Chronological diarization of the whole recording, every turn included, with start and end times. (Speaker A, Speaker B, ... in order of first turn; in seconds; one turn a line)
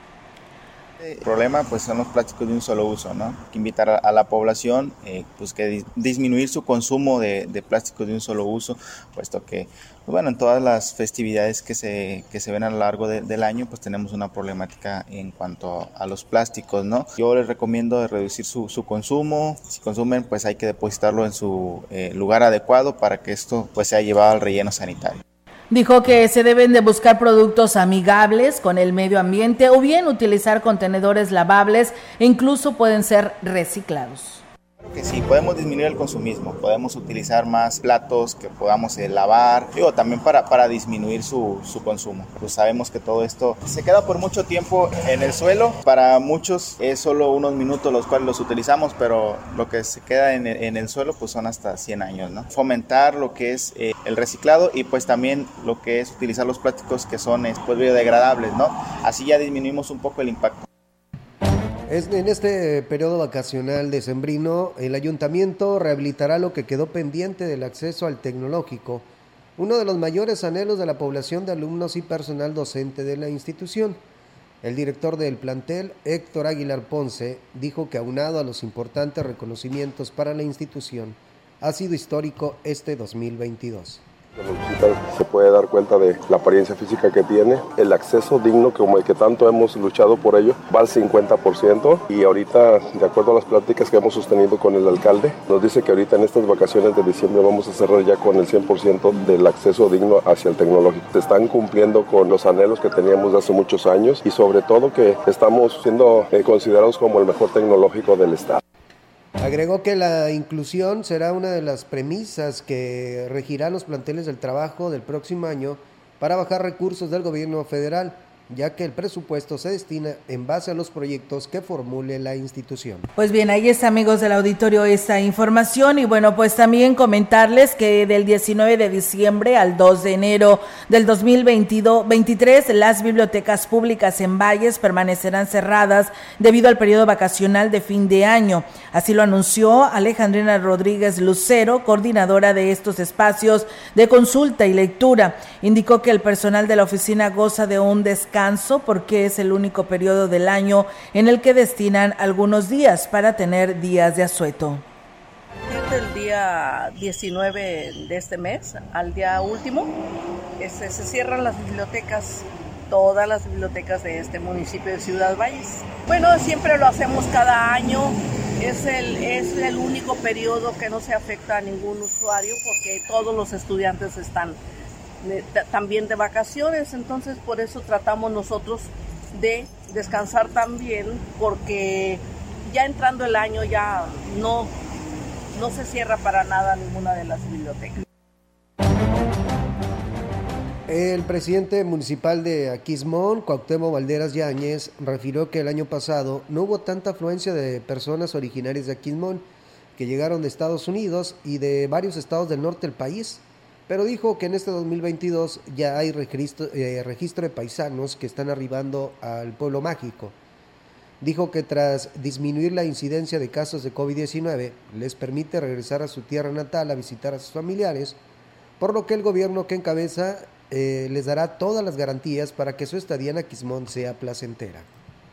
Speaker A: 1.0-25.2
Speaker B: 25.7-34.4
Speaker A: 34.8-60.6
Speaker C: 61.9-74.0
Speaker C: 74.6-84.0
Speaker D: 84.4-108.6
Speaker C: 109.4-123.1
Speaker B: 123.2-154.8
Speaker E: 155.7-159.9
Speaker E: 160.6-174.6
Speaker E: 175.2-184.7
Speaker E: 185.5-188.0
Speaker C: 190.9-199.4
Speaker C: 200.0-210.3
Speaker C: 211.2-218.2
Speaker C: 218.8-224.9